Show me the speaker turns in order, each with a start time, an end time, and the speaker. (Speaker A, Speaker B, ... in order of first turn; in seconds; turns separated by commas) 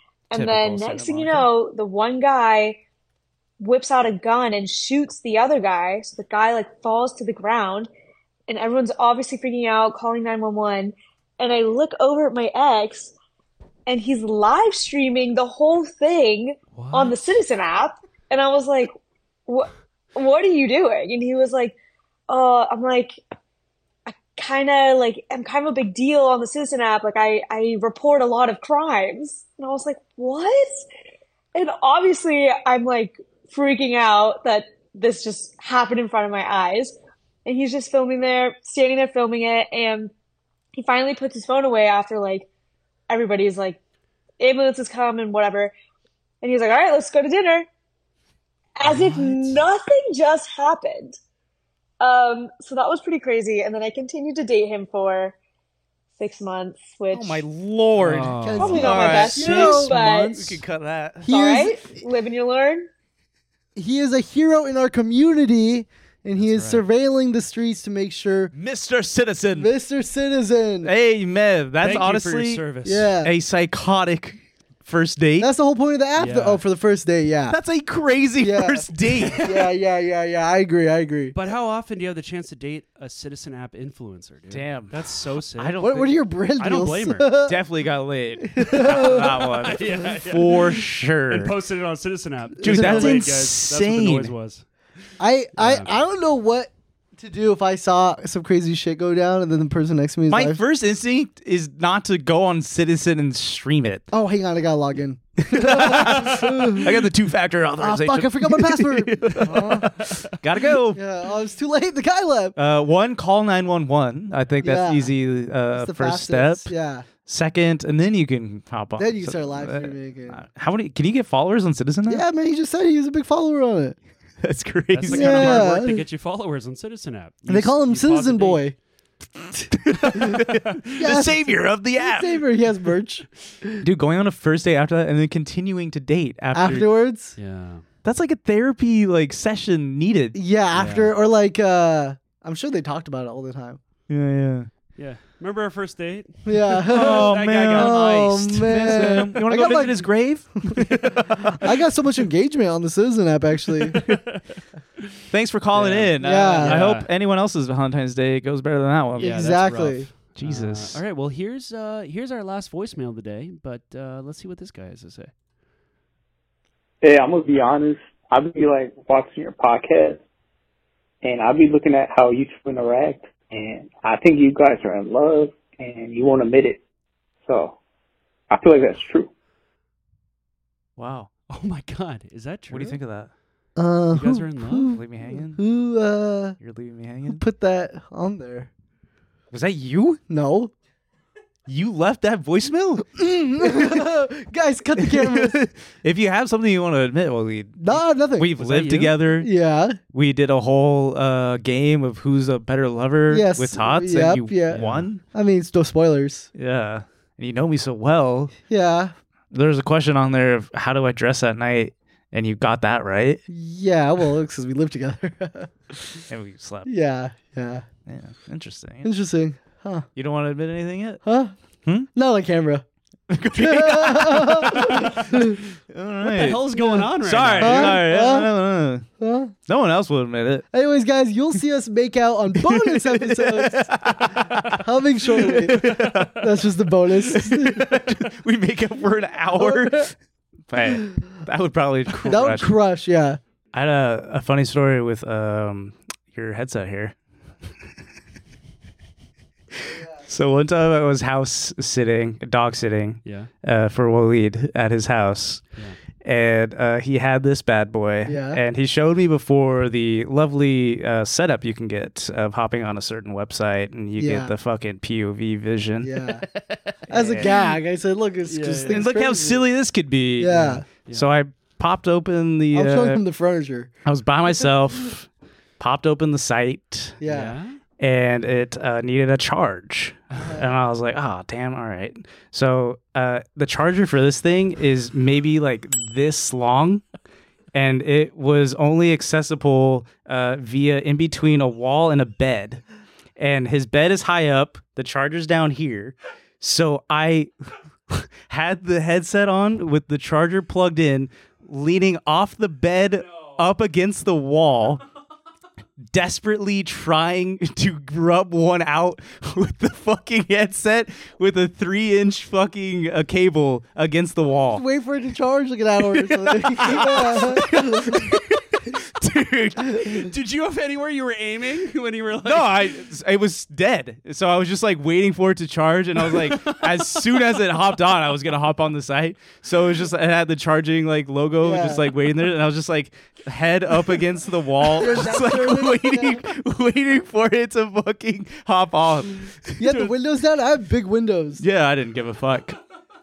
Speaker A: 0.3-2.8, Speaker B: 0.3-1.5, Speaker A: 3.6-7.9, Speaker A: 8.5-13.1, Speaker A: 13.9-18.9, Speaker C: 16.7-17.2, Speaker A: 19.5-21.8, Speaker A: 22.3-23.2, Speaker A: 24.1-30.8, Speaker A: 31.5-40.1, Speaker A: 40.8-42.5, Speaker A: 43.1-43.8, Speaker A: 44.4-45.7, Speaker A: 46.4-47.7, Speaker A: 48.8-51.2, Speaker C: 48.8-49.6, Speaker A: 52.0-55.4, Speaker A: 56.2-57.4, Speaker B: 57.1-61.3, Speaker C: 58.0-59.3, Speaker D: 58.4-59.9, Speaker A: 58.6-60.6, Speaker A: 61.2-62.9, Speaker D: 61.3-61.9, Speaker D: 63.8-68.5, Speaker C: 66.4-66.8, Speaker B: 68.5-69.7, Speaker D: 69.5-70.9, Speaker B: 70.8-72.6, Speaker C: 71.8-73.1, Speaker D: 72.8-73.3, Speaker B: 73.2-75.5, Speaker D: 75.4-77.6, Speaker C: 76.2-76.6, Speaker B: 77.5-79.4, Speaker D: 78.4-78.9, Speaker C: 79.2-79.7, Speaker D: 79.4-81.3, Speaker C: 81.3-85.8, Speaker B: 84.5-85.0, Speaker B: 85.5-86.2, Speaker D: 85.8-87.6, Speaker C: 86.6-87.3, Speaker B: 87.5-91.5, Speaker D: 88.5-89.4, Speaker C: 88.7-94.7, Speaker D: 92.6-93.2, Speaker B: 92.6-94.3, Speaker D: 95.2-100.6, Speaker C: 95.6-95.9, Speaker B: 100.3-104.0, Speaker D: 104.1-106.9, Speaker B: 105.4-111.0, Speaker D: 107.8-110.0, Speaker C: 109.3-110.3, Speaker D: 110.9-112.5, Speaker B: 112.5-116.7, Speaker D: 114.6-115.1, Speaker D: 115.7-117.0, Speaker B: 117.2-122.2, Speaker D: 119.0-120.4, Speaker D: 122.1-124.0, Speaker B: 124.4-125.8, Speaker C: 124.9-128.7, Speaker D: 125.1-126.0, Speaker D: 127.5-128.7, Speaker B: 129.7-132.4, Speaker D: 130.9-133.8, Speaker B: 133.8-136.9, Speaker D: 136.5-137.4, Speaker C: 137.4-137.8, Speaker B: 138.0-140.4, Speaker D: 140.3-143.8, Speaker C: 140.7-141.1, Speaker B: 144.1-144.7, Speaker C: 145.0-149.2, Speaker D: 146.4-150.1, Speaker B: 146.9-151.6, Speaker D: 151.5-154.0, Speaker C: 153.9-154.4, Speaker B: 155.3-159.7, Speaker C: 155.7-157.1, Speaker D: 156.2-156.8, Speaker C: 159.2-165.3, Speaker D: 159.2-160.1, Speaker B: 160.3-161.0, Speaker E: 167.0-170.2, Speaker E: 171.2-176.8, Speaker E: 177.4-177.8, Speaker E: 178.5-179.3, Speaker B: 181.0-181.3, Speaker C: 181.5-183.0, Speaker B: 182.7-183.3, Speaker D: 183.8-186.6, Speaker C: 184.1-184.9, Speaker B: 184.9-185.6, Speaker B: 186.6-187.4, Speaker D: 187.3-188.7, Speaker B: 189.5-190.2, Speaker D: 190.3-190.7, Speaker B: 191.7-194.1, Speaker D: 193.1-195.6, Speaker B: 195.0-199.5, Speaker D: 197.8-198.5, Speaker C: 198.6-199.1, Speaker D: 199.4-200.0, Speaker B: 200.1-205.2, Speaker D: 203.3-204.8, Speaker C: 204.7-205.1, Speaker D: 205.3-206.5, Speaker B: 206.5-208.5, Speaker D: 208.7-209.1, Speaker B: 209.5-213.4, Speaker D: 213.5-216.2, Speaker B: 216.3-216.9, Speaker D: 216.8-217.8, Speaker B: 218.1-219.1, Speaker D: 219.0-220.1, Speaker B: 220.2-221.2, Speaker D: 221.2-221.5, Speaker D: 222.1-222.8, Speaker B: 223.3-229.1, Speaker D: 223.5-225.6, Speaker C: 226.2-228.0, Speaker D: 226.8-227.1, Speaker D: 227.6-228.5, Speaker D: 229.2-229.5, Speaker B: 229.7-230.7, Speaker D: 230.7-237.8, Speaker B: 232.5-236.6, Speaker B: 237.1-240.1, Speaker D: 239.5-240.1, Speaker B: 240.7-242.8, Speaker D: 241.0-241.4, Speaker D: 242.2-243.4, Speaker B: 243.7-247.1, Speaker B: 249.8-255.6, Speaker B: 256.2-266.3, Speaker D: 258.2-258.6, Speaker D: 264.2-264.5, Speaker D: 266.0-266.4, Speaker C: 266.5-267.7, Speaker D: 267.1-269.6, Speaker B: 267.1-267.5, Speaker C: 268.4-269.1, Speaker B: 268.9-273.2, Speaker D: 270.4-270.8, Speaker C: 270.5-271.3, Speaker D: 272.7-273.9, Speaker B: 274.0-277.2, Speaker D: 277.2-277.5, Speaker C: 277.3-277.8, Speaker B: 278.0-287.0, Speaker B: 287.7-292.8, Speaker B: 293.4-297.5, Speaker B: 298.1-305.0, Speaker B: 306.1-314.8, Speaker D: 314.7-318.2, Speaker B: 316.1-320.3, Speaker C: 320.1-323.0, Speaker B: 322.4-340.0, Speaker C: 326.3-327.3, Speaker D: 331.6-332.1, Speaker D: 334.9-336.4, Speaker D: 339.8-341.6, Speaker B: 341.6-342.8